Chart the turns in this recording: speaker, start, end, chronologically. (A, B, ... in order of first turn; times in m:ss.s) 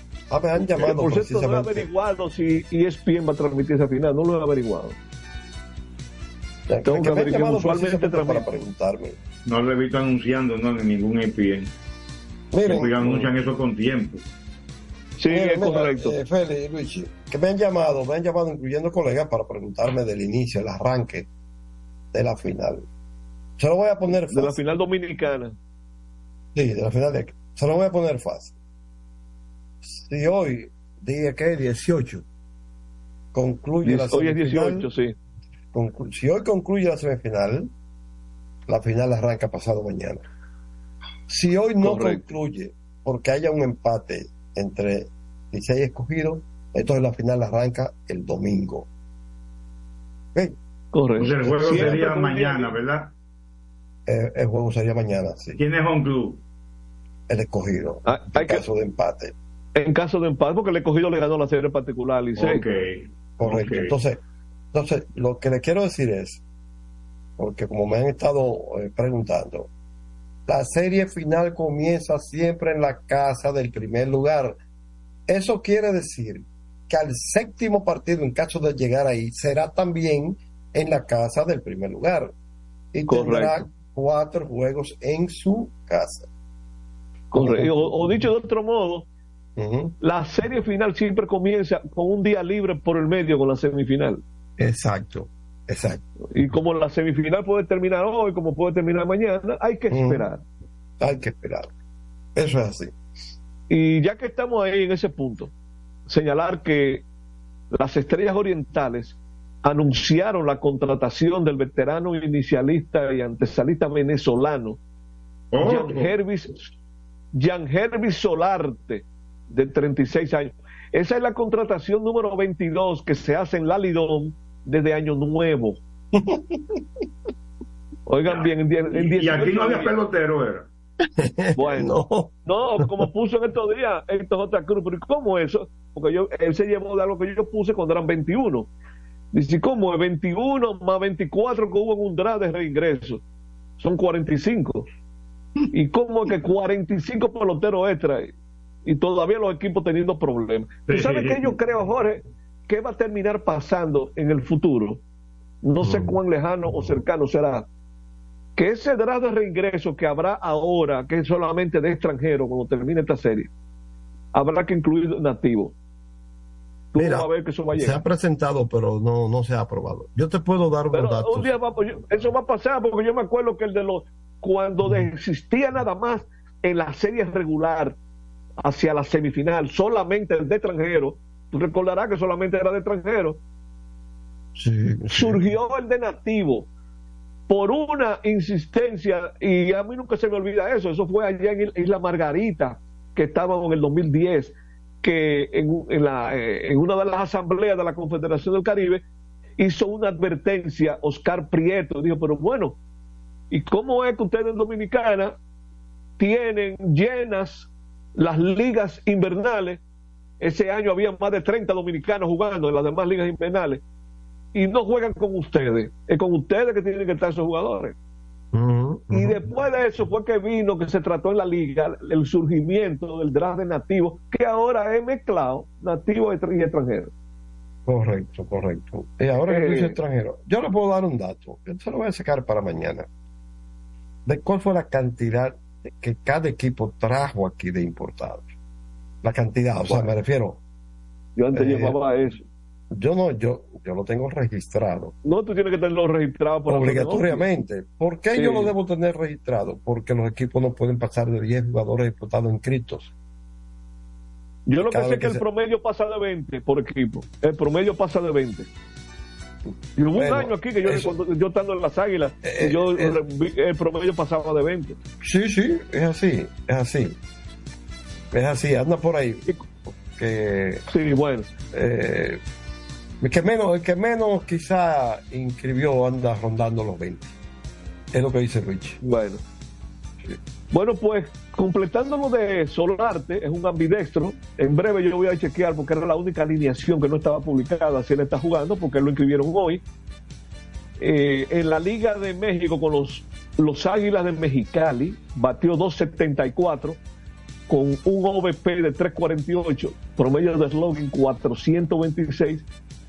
0:00.3-0:01.9 A
0:00.8-0:05.0 B
0:06.7-0:09.2 A
0:06.8-0:08.6 B
0:09.4-0:11.7 C
0:12.5-0:13.1 A
0:12.6-0:14.2 C
0:15.2-0:16.2 B
0:15.3-0:21.3 A
0:22.1-0:22.8 A
0:23.6-0:24.6 A
0:24.1-0:25.5 B
0:26.5-0:28.5 A
0:29.8-0:32.2 A
0:33.3-0:34.9 A
0:33.8-0:35.2 B
0:35.7-0:37.7 A
0:38.7-0:40.2 A
0:41.3-0:48.9 A
0:41.8-0:42.2 B
0:50.9-0:52.7 B
0:51.2-0:53.1 C
0:51.4-0:52.0 A
0:54.0-0:55.6 A
0:55.5-0:56.4 C
0:57.3-0:59.3 A
0:58.0-0:58.6 B
0:59.7-1:02.6 B
1:02.4-1:03.9 C
1:03.4-1:04.2 A
1:04.7-1:06.4 A
1:07.4-1:09.7 A
1:10.5-1:14.6 A
1:15.3-1:22.3 A
1:22.9-1:26.3 A
1:23.1-1:23.6 B
1:27.3-1:29.1 B
1:27.3-1:28.2 A
1:29.6-1:29.9 A
1:30.0-1:34.2 B
1:34.6-1:36.0 A
1:36.3-1:40.4 B
1:39.9-1:40.3 A
1:41.0-1:41.7 A
1:42.3-1:42.9 A
1:43.7-1:45.5 B
1:46.1-1:47.0 B
1:47.7-1:54.8 B
1:55.5-1:56.1 C
1:55.6-1:56.7 B
1:57.3-2:05.8 B
2:06.1-2:06.8 A
2:08.1-2:10.0 B
2:08.2-2:10.7 C
2:11.2-2:12.3 A
2:11.6-2:11.9 B
2:12.4-2:18.7 B
2:19.3-2:23.2 B
2:23.8-2:24.9 B
2:25.7-2:28.3 B
2:28.8-2:35.0 B
2:30.9-2:31.5 C
2:35.6-2:37.7 B
2:35.8-2:36.1 A
2:38.6-2:43.5 B
2:44.3-2:45.7 B
2:46.9-2:48.0 B
2:47.0-2:51.5 A
2:50.9-2:58.0 B
2:58.6-3:03.4 B
3:04.6-3:05.4 A
3:05.1-3:06.7 B
3:07.5-3:19.0 B
3:19.6-3:22.8 B
3:23.5-3:25.4 B
3:26.2-3:29.8 B
3:30.4-3:33.8 B
3:34.5-3:38.0 B
3:38.5-3:39.4 A
3:39.1-3:47.1 B
3:47.8-3:53.1 A
3:49.3-3:50.0 B
3:54.2-3:58.5 A
3:59.2-4:00.6 A
3:59.8-4:00.1 B
4:01.4-4:02.4 B
4:01.5-4:02.0 A
4:02.9-4:05.1 A
4:05.2-4:07.5 B
4:06.7-4:13.1 A
4:08.3-4:08.7 B
4:14.6-4:18.7 B
4:14.8-4:15.4 A
4:20.0-4:25.0 B
4:20.1-4:21.1 A
4:22.4-4:23.2 A
4:25.2-4:27.2 A
4:28.3-4:30.8 A
4:30.9-4:31.5 B
4:31.7-4:32.4 A
4:33.2-4:37.3 A
4:38.1-4:39.0 A
4:39.0-4:39.4 B
4:40.7-4:49.8 B
4:51.0-4:57.0 B
4:57.7-5:02.6 B